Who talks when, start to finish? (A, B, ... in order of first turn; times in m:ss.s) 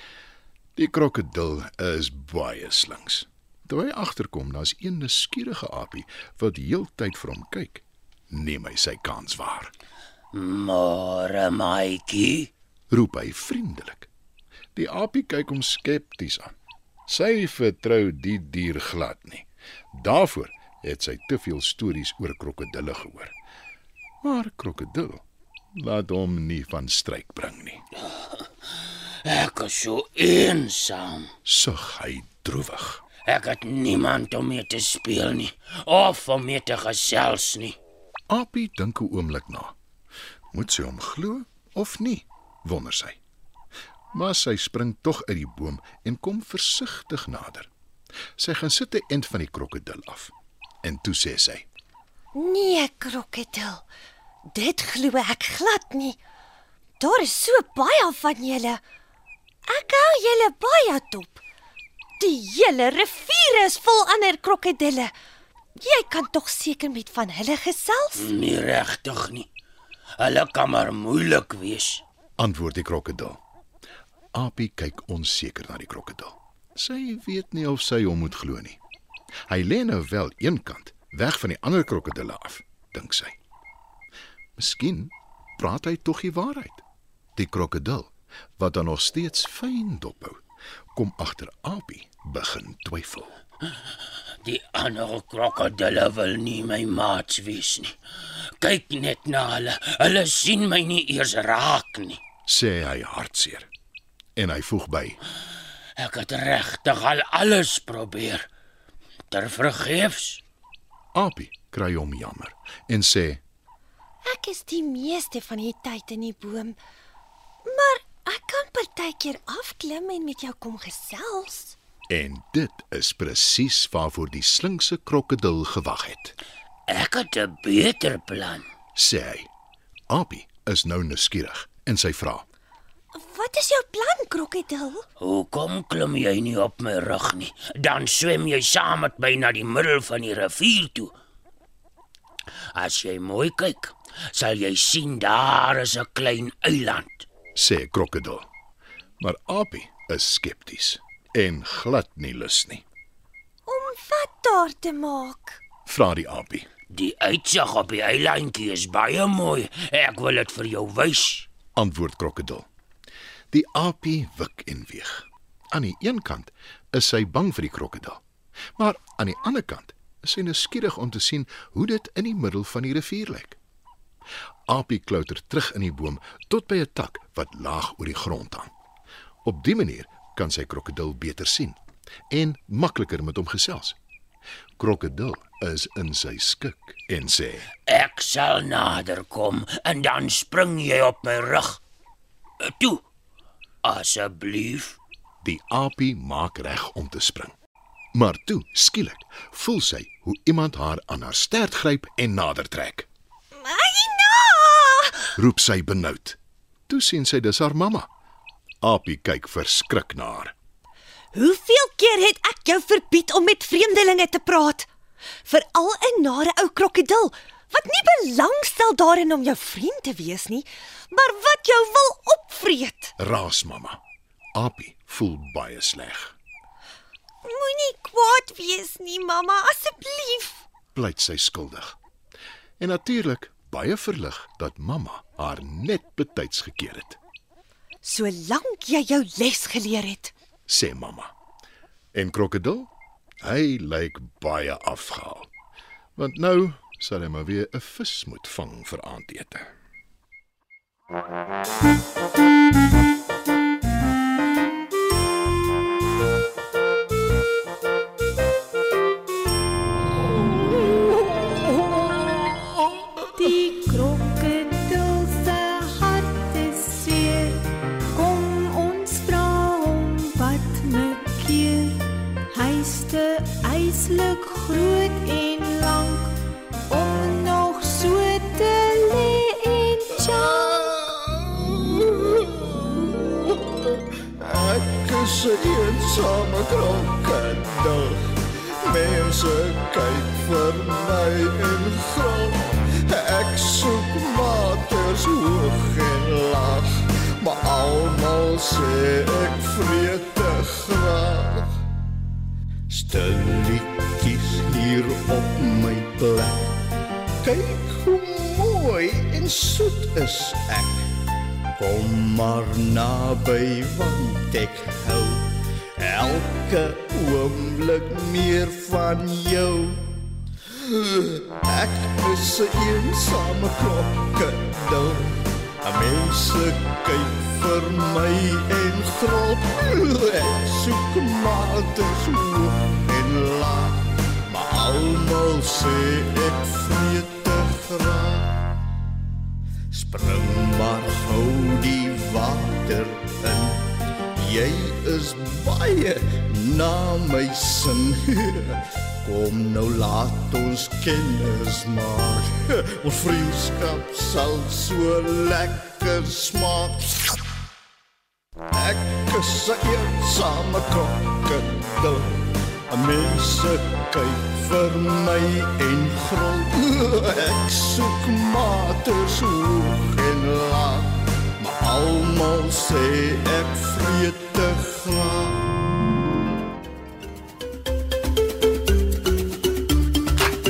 0:00.8-0:09.7 A
0:10.3-0:12.5 B
0:12.9-0:14.1 A
0:14.7-0:16.5 A
0:17.1-0:23.3 A
0:24.2-0:27.8 A
0:29.2-0:31.3 B
0:31.4-0:33.0 A
0:33.2-0:37.8 B
0:38.3-0:39.7 A
0:40.5-0:43.2 A
0:44.1-0:47.7 A
0:48.4-0:51.6 A
0:52.3-0:53.8 C
0:54.5-0:56.2 C
0:57.0-0:58.8 C
0:59.7-1:01.4 C
1:02.2-1:05.1 C
1:05.8-1:08.3 C
1:08.2-1:09.5 B
1:10.2-1:12.0 B
1:12.4-1:13.4 A
1:14.3-1:18.8 A
1:19.5-1:23.4 A
1:24.6-1:26.8 A
1:27.4-1:30.4 A
1:30.9-1:33.4 A
1:34.4-1:37.9 B
1:38.6-1:42.2 B
1:42.5-1:43.7 A
1:44.4-1:45.2 A
1:46.0-1:48.5 B
1:49.3-1:50.4 B
1:51.1-1:53.4 A
1:54.2-1:56.8 C
1:57.6-2:01.8 C
2:02.1-2:06.3 A
2:06.9-2:08.6 B
2:08.9-2:09.5 A
2:10.1-2:12.4 A
2:13.1-2:15.0 C
2:15.2-2:21.1 B
2:22.7-2:27.3 B
2:27.5-2:28.5 A
2:29.2-2:32.8 A
2:33.6-2:35.6 C
2:35.8-2:36.7 A
2:36.9-2:41.5 B
2:41.8-2:42.7 A
2:43.5-2:48.2 A
2:48.8-2:53.6 A
2:54.7-2:58.7 A
2:59.4-3:01.8 A
3:02.3-3:04.0 A
3:04.8-3:07.7 A
3:07.9-3:11.8 B
3:12.6-3:13.0 B
3:13.8-3:15.0 B
3:15.4-3:17.5 A
3:18.1-3:23.1 A
3:23.5-3:25.3 C
3:25.4-3:28.1 A
3:28.8-3:30.5 A
3:31.3-3:34.9 C
3:35.4-3:43.1 C
3:43.2-3:44.0 A
3:44.5-3:46.3 A
3:47.4-3:50.6 C
3:50.9-3:52.0 A
3:52.8-3:57.2 A
3:58.0-4:00.3 C
4:00.7-4:01.3 A
4:02.1-4:02.9 A
4:03.4-4:05.5 A
4:06.2-4:09.7 A
4:23.3-4:27.6 D
4:28.1-4:36.3 D
4:36.9-4:40.7 D
4:40.2-5:01.7 E
5:02.9-5:06.8 E
5:07.4-5:11.1 E
5:11.8-5:20.0 E
5:20.7-5:38.7 E
5:39.9-5:57.4 E
5:58.7-6:15.7 E